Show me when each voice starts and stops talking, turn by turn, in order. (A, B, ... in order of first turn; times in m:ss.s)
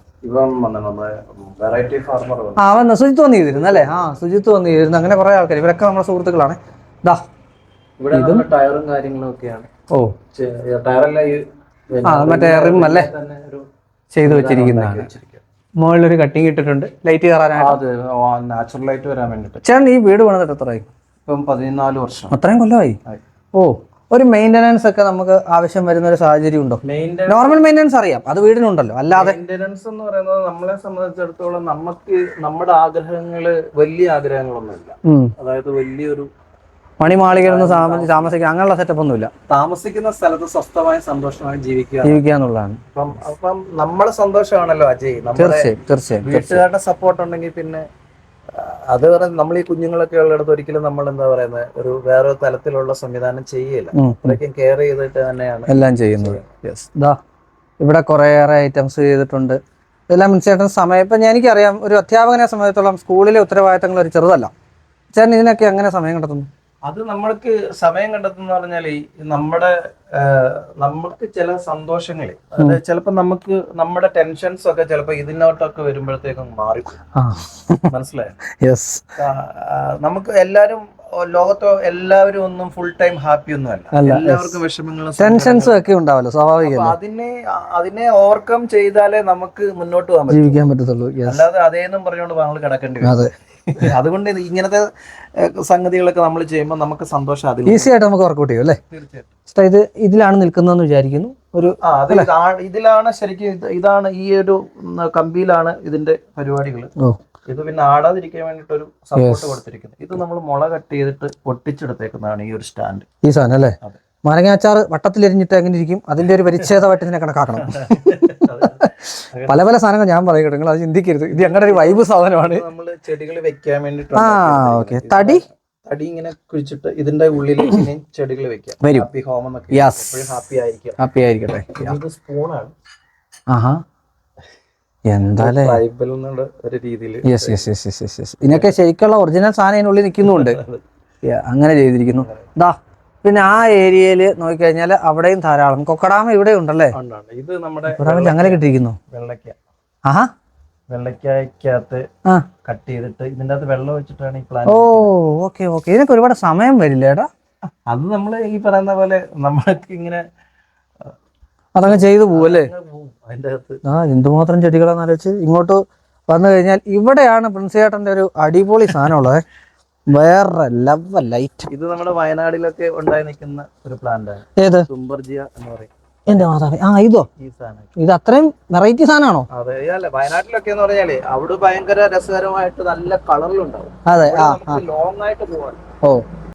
0:00.2-0:02.6 A
0:02.6-0:07.2 B
0:03.5-0:04.0 A
0:08.0-0:09.7 A
0:08.1-0:08.4 B
0:10.3-0:13.7 A
0:12.0-0:13.1 B
0:14.1-0:15.1 B
0:14.2-0:15.4 A
0:15.8-0:17.8 B
0:17.6-0:19.6 A
0:19.6-0:20.8 B
0:21.2-0:22.3 A
0:22.3-0:23.0 B
0:23.5-0:29.4 B
0:26.8-0:27.6 A
0:29.1-0:36.3 A
0:35.0-0:35.3 B
0:37.0-0:39.3 B
0:37.3-0:38.3 A
0:39.5-0:42.2 A
0:42.0-0:42.8 B
0:42.9-0:47.8 A
0:45.4-0:46.6 B
0:48.5-0:56.5 A
0:53.9-0:54.4 B
0:55.7-0:57.2 B
0:57.8-0:59.6 B
1:00.1-1:04.5 B
1:05.1-1:06.5 B
1:06.8-1:17.0 A
1:17.1-1:17.9 B
1:17.9-1:18.3 A
1:18.6-1:19.0 B
1:19.2-1:25.8 A
1:23.9-1:24.6 B
1:25.2-1:26.9 B
1:26.6-1:30.6 A
1:30.3-1:31.4 B
1:31.2-1:33.1 A
1:33.0-1:33.9 B
1:33.7-1:37.9 A
1:37.6-1:38.8 B
1:38.9-1:39.3 A
1:39.5-1:42.3 B
1:41.8-1:46.9 A
1:47.5-1:53.1 A
1:49.2-1:49.6 B
1:53.2-1:58.9 B
1:57.6-1:59.6 A
1:59.4-2:02.6 B
2:01.3-2:11.0 A
2:04.2-2:05.4 B
2:08.8-2:09.1 B
2:09.7-2:10.2 B
2:11.0-2:12.0 B
2:11.8-2:12.7 A
2:13.5-2:13.8 B
2:15.1-2:15.8 B
2:15.4-2:17.6 A
2:17.2-2:20.6 B
2:18.5-2:18.7 A
2:20.2-2:20.8 A
2:21.2-2:27.0 B
2:22.1-2:22.5 A
2:26.9-2:29.6 A
2:27.9-2:29.0 B
2:30.9-2:32.1 A
2:32.6-2:35.1 A
2:34.7-2:37.3 B
2:37.9-2:40.2 A
2:41.7-2:42.7 B
2:41.9-2:43.8 A
2:43.8-2:49.4 B
2:50.1-2:51.7 B
2:51.7-2:55.9 A
2:54.6-2:54.9 B
2:56.3-2:57.3 B
2:57.4-2:57.9 A
2:58.0-2:59.5 B
2:59.5-3:05.8 A
3:04.1-3:04.8 B